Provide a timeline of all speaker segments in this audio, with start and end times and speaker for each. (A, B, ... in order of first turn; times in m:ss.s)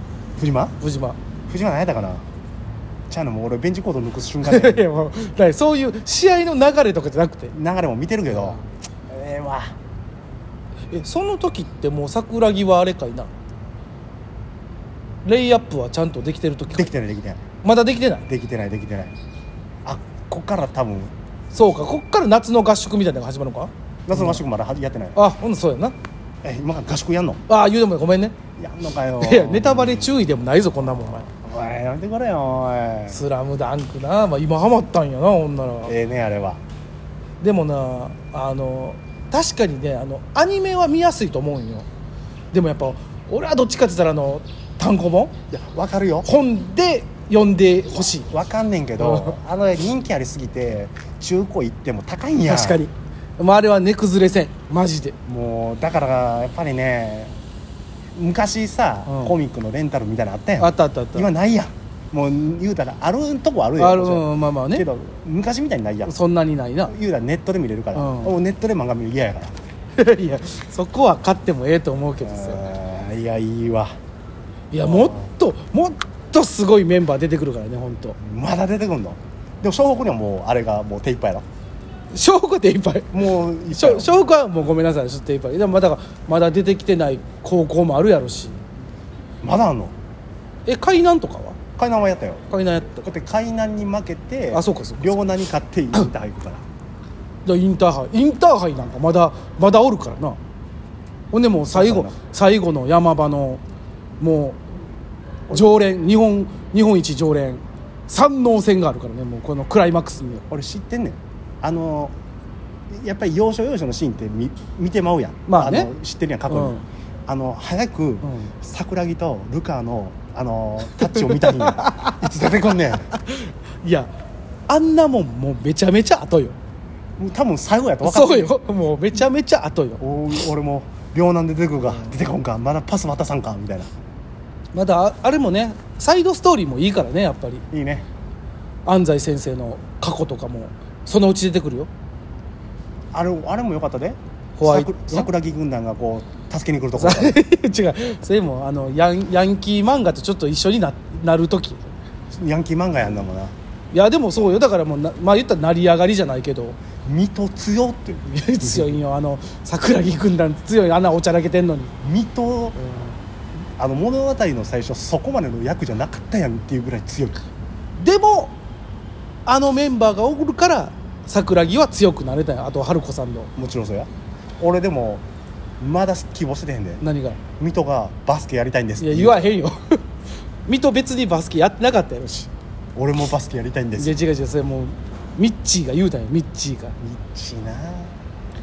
0:00.4-0:00.7 A
0:00.8-0:01.2 B
0:01.5-0:02.2 A
0:03.1-0:04.8 A
0:04.4-0:07.5 B
0:07.5-0:09.7 A
0:08.3-0:08.6 B
0:10.9-0:13.3 B
0:15.2-0:16.9 B
0:16.7-0:17.4 A
0:17.6-0:18.2 B
0:18.3-0:19.1 A
0:19.8-0:21.1 A
0:21.5-0:24.4 B
0:24.1-0:25.2 A
0:25.1-0:26.0 B
0:26.4-0:27.4 A
0:27.5-0:28.4 B
0:28.6-0:30.2 A
0:29.2-0:31.2 B
0:30.8-0:33.2 A
0:33.1-0:35.9 B
0:35.8-0:36.6 A
0:37.4-0:41.8 B
0:42.5-0:45.3 B
0:45.5-0:46.3 A
0:46.2-0:48.3 B
0:48.3-0:52.8 A
0:49.0-0:49.4 B
0:52.4-0:55.1 B
0:55.2-0:57.4 A
0:58.1-1:06.1 A
0:59.1-0:59.4 B
1:00.6-1:01.3 B
1:03.8-1:04.8 B
1:06.0-1:06.9 B
1:06.8-1:09.5 A
1:07.9-1:08.3 B
1:10.0-1:12.6 B
1:12.2-1:13.9 A
1:14.7-1:18.2 B
1:14.8-1:15.3 A
1:18.2-1:21.4 A
1:22.1-1:23.2 B
1:23.1-1:24.2 A
1:23.7-1:28.6 B
1:29.4-1:29.9 A
1:30.6-1:31.6 B
1:31.8-1:32.4 A
1:32.5-1:33.1 B
1:33.0-1:36.6 A
1:34.5-1:35.2 B
1:37.4-1:40.4 B
1:41.3-1:43.6 B
1:41.7-1:42.2 A
1:44.2-1:44.6 B
1:45.5-1:50.4 B
1:50.5-1:52.1 A
1:52.9-2:03.1 A
1:55.5-1:55.9 B
1:56.5-1:56.8 B
1:58.2-1:58.5 B
2:01.0-2:02.2 B
2:03.1-2:04.1 B
2:04.7-2:06.6 B
2:07.2-2:08.5 A
2:08.0-2:10.0 B
2:10.0-2:13.9 A
2:11.8-2:12.1 B
2:14.7-2:17.6 B
2:17.7-2:18.0 A
2:18.8-2:21.9 B
2:23.1-2:27.4 A
2:24.6-2:25.3 B
2:26.9-2:31.8 B
2:32.3-2:33.5 A
2:33.9-2:36.8 B
2:37.0-2:39.0 A
2:38.2-2:41.9 B
2:42.0-2:42.8 A
2:42.8-2:43.1 B
2:43.8-2:47.4 A
2:48.0-2:48.5 B
2:49.4-2:53.5 B
2:53.6-2:54.1 A
2:54.6-2:55.2 A
2:55.8-2:57.0 A
2:57.0-2:57.4 B
2:57.6-2:59.5 A
2:59.0-3:00.0 B
3:00.7-3:02.5 B
3:03.0-3:04.2 A
3:04.0-3:07.0 B
3:07.0-3:08.1 A